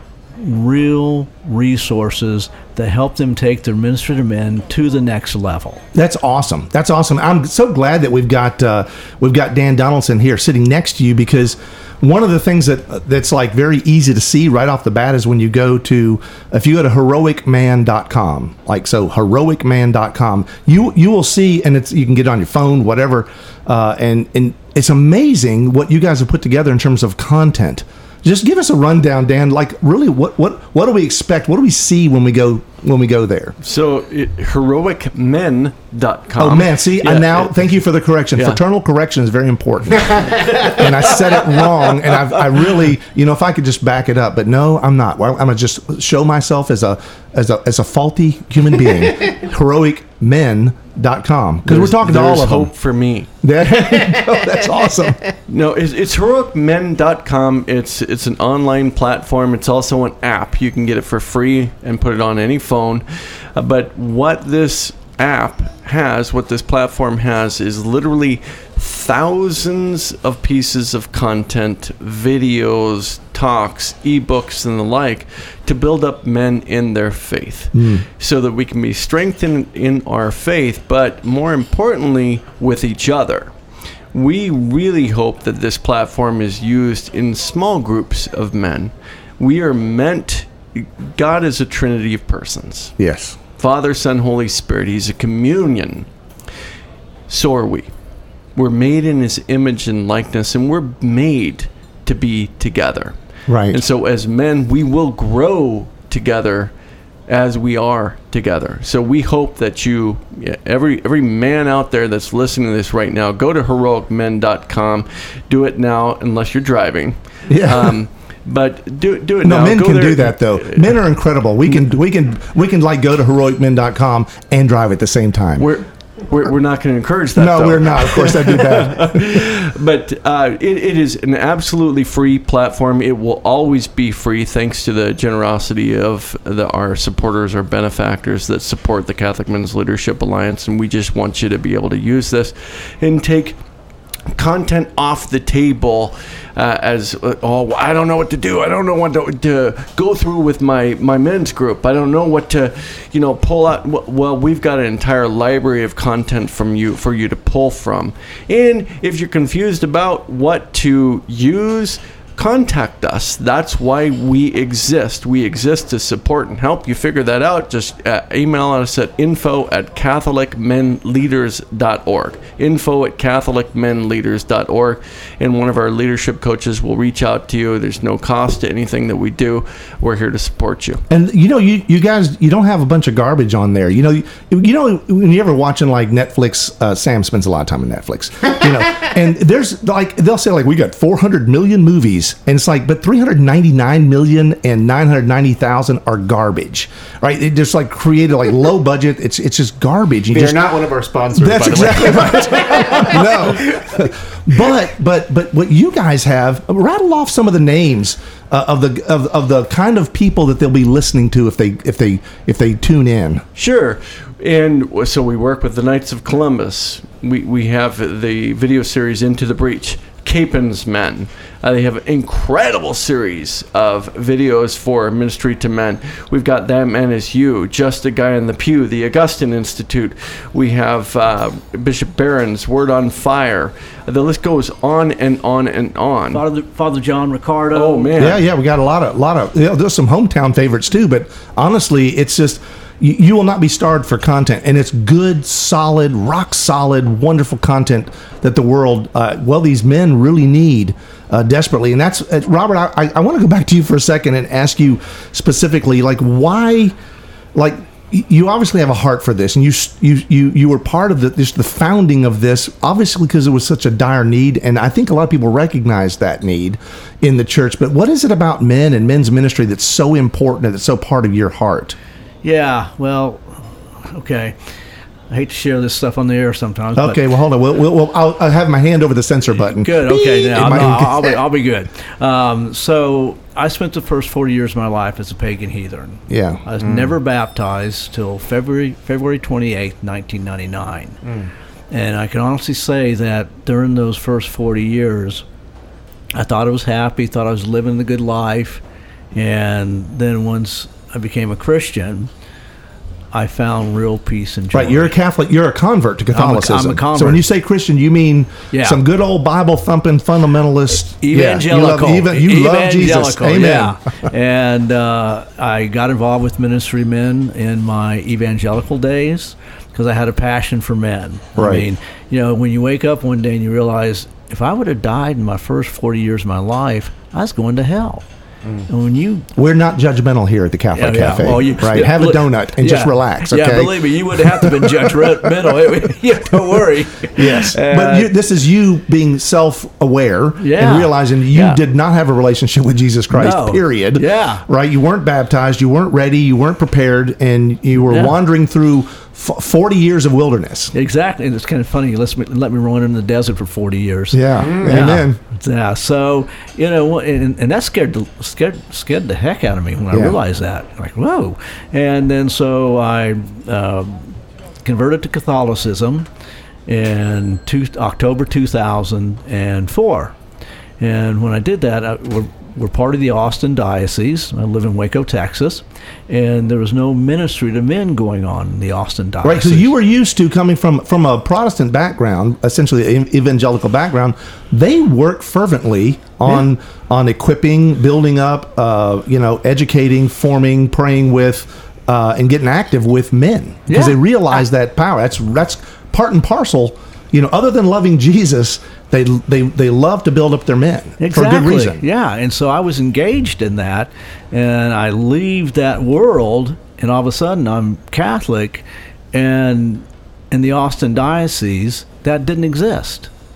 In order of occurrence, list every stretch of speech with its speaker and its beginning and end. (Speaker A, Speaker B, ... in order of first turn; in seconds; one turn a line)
Speaker A: 0.4-5.8
Speaker B: 5.9-33.5
Speaker C: 33.6-37.5
Speaker B: 36.4-52.7
Speaker C: 51.6-53.3
Speaker B: 53.4-55.2
Speaker C: 55.5-83.5
Speaker B: 77.7-78.0
Speaker C: 84.1-92.9
Speaker B: 93.0-93.4
Speaker C: 93.6-96.1
Speaker C: 97.3-97.9
Speaker C: 98.5-103.1
Speaker B: 103.5-103.8
Speaker C: 103.7-106.7
Speaker C: 107.3-121.0
Speaker B: 117.5-118.0
Speaker B: 119.4-125.7
Speaker C: 125.6-143.6
Speaker B: 127.3-129.4
Speaker C: 144.3-181.0
Speaker B: 181.1-200.6
Speaker D: 200.3-203.8
Speaker B: 201.4-213.4
Speaker C: 213.6-236.4
Speaker A: 236.3-238.3
Speaker C: 237.7-238.4
Speaker B: 238.2-256.9
Speaker B: 257.5-271.9
Speaker A: 272.4-274.6
Speaker A: 275.3-277.2
Speaker B: 276.9-281.4
Speaker A: 279.8-291.2
Speaker B: 286.3-286.6
Speaker D: 286.8-287.1
Speaker D: 291.2-291.5
Speaker A: 291.9-295.4
Speaker A: 296.3-298.8
Speaker A: 299.3-302.3
Speaker A: 303.3-305.1
Speaker B: 304.7-314.0
Speaker A: 306.3-307.4
Speaker A: 308.7-309.0
Speaker A: 311.2-328.2
Speaker B: 321.6-321.9
Speaker A: 328.9-329.5
Speaker B: 329.6-335.5
Speaker A: 330.9-338.3
Speaker B: 337.3-350.9
Speaker A: 340.6-341.8
Speaker A: 343.3-344.6
Speaker A: 347.9-348.4
Speaker A: 350.9-366.3
Speaker B: 354.3-355.4
Speaker D: 354.6-355.0
Speaker B: 360.1-360.4
Speaker A: 366.9-370.3
Speaker A: 371.0-379.9
Speaker B: 379.4-402.0
Speaker A: 393.9-394.2
Speaker A: 401.2-413.3